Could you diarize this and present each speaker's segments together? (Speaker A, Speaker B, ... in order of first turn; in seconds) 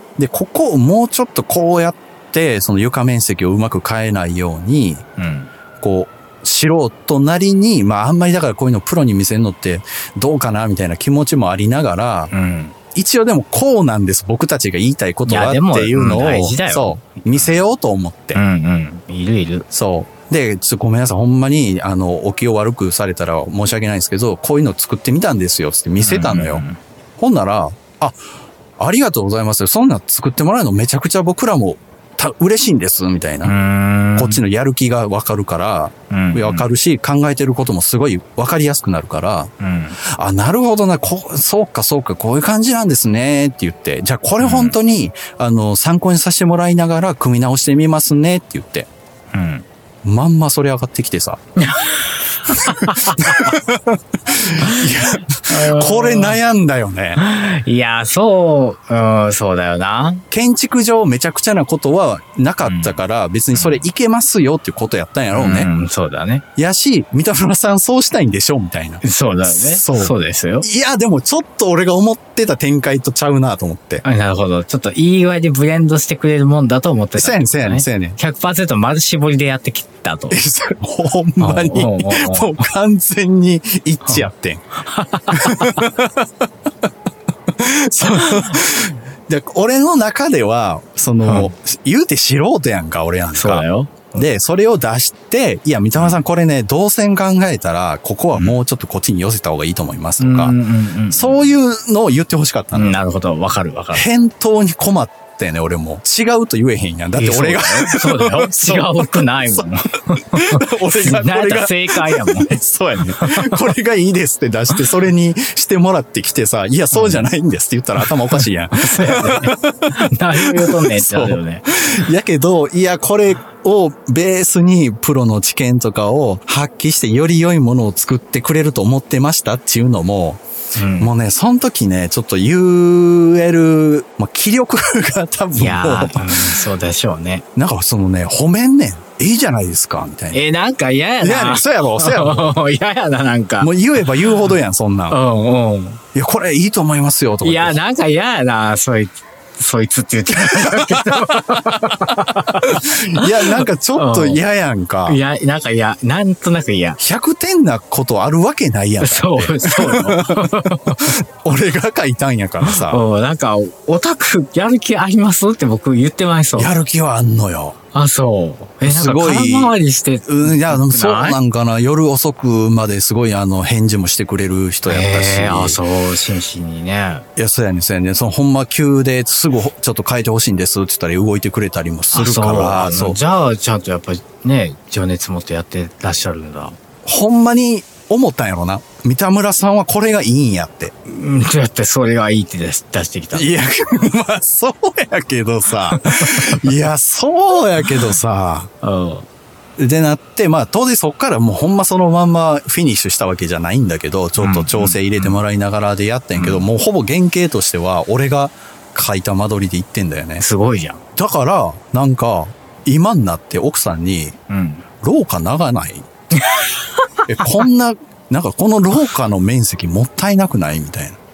Speaker A: 0.2-5.0, 5.8-12.3, 12.9-18.4, 19.7-26.6, 27.2-28.2, 28.8-33.5, 34.1-48.9, 50.0-51.4, 52.5-57.2, 60.3-65.7, 66.5-74.0, 77.1-78.2, 80.3-84.6, 85.3-86.3, 87.6-100.6, 101.1-103.0, 103.9-109.7, 110.3-130.4, 131.0-136.7, 137.6-140.4, 141.2-142.6, 143.6-145.2, 146.1-147.8, 150.3-151.9, 152.7-155.2, 157.0-163.0, 166.6-167.8, 168.8-175.8, 177.3-183.2, 187.0-190.9, 193.3-198.7, 199.8-210.4, 211.2-214.4, 215.0-216.1, 217.3-221.2
Speaker B: 5.2-5.5, 12.3-12.7, 15.2-17.6, 18.3-19.6, 26.0-26.8, 33.4-34.4, 36.1-36.7, 39.6-40.0, 44.4-44.8, 49.3-49.6, 51.6-53.6, 54.6-56.4, 57.1-60.2, 62.6-63.0, 63.5-63.8, 65.3-66.4, 69.0-70.7, 74.0-80.4, 81.4-82.7, 84.0-85.8, 88.0-88.5, 91.2-91.5, 93.3-94.3, 100.2-101.5, 102.7-104.1, 107.2-113.6, 116.9-117.3, 118.0-121.7, 130.8-131.1, 135.5-137.4, 140.3-144.5, 145.1-146.0, 147.4-154.4, 155.0-157.0, 159.0-161.1, 162.6-166.7, 167.9-171.4, 174.8-177.2, 182.1-186.8, 191.1-193.5, 195.8-196.7, 198.8-199.3, 204.4-205.4, 206.3-206.7, 210.4-211.0, 214.5-214.8, 216.3-217.7